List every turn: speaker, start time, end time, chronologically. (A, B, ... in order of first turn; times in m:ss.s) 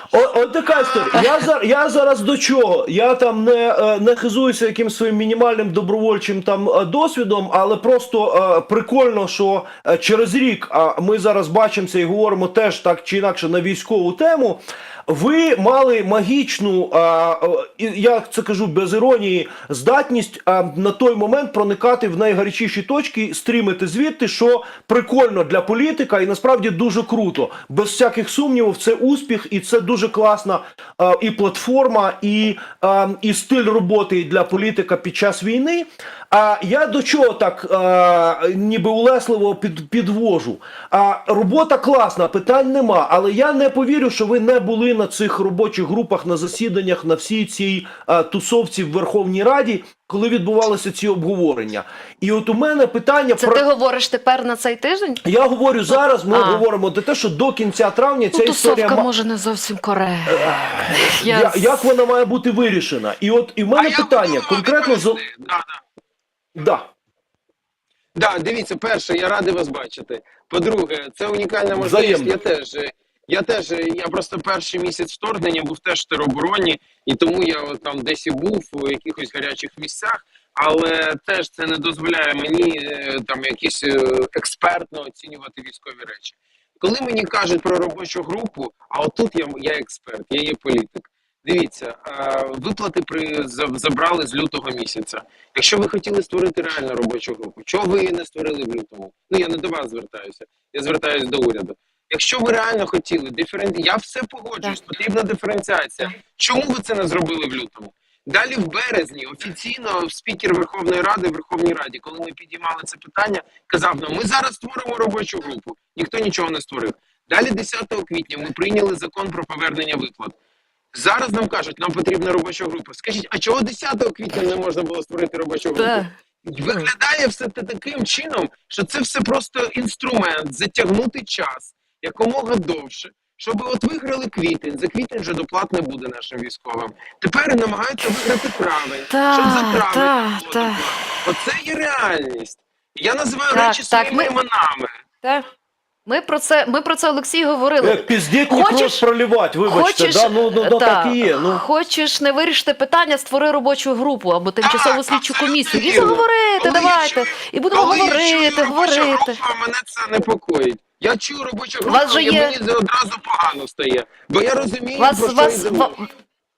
0:00.1-0:53.6 A
0:00.8-0:01.3 B
0:53.4-0:55.2 C
0:55.2-0:59.1 A
0:56.3-0:56.6 C
0:58.3-1:01.9 C
1:00.3-1:05.2 A
1:03.7-1:05.8 B
1:06.6-1:06.9 A
1:08.2-2:00.4 B
1:11.7-1:12.4 A
2:00.9-2:25.0 B
2:05.8-2:06.1 C
2:19.1-2:20.8 C
2:23.5-2:24.3 C
2:26.1-2:29.0 C
2:27.8-2:31.6 A
2:29.6-2:39.4 C
2:34.6-2:46.1 B
2:41.9-2:42.6 C
2:45.0-2:46.1 C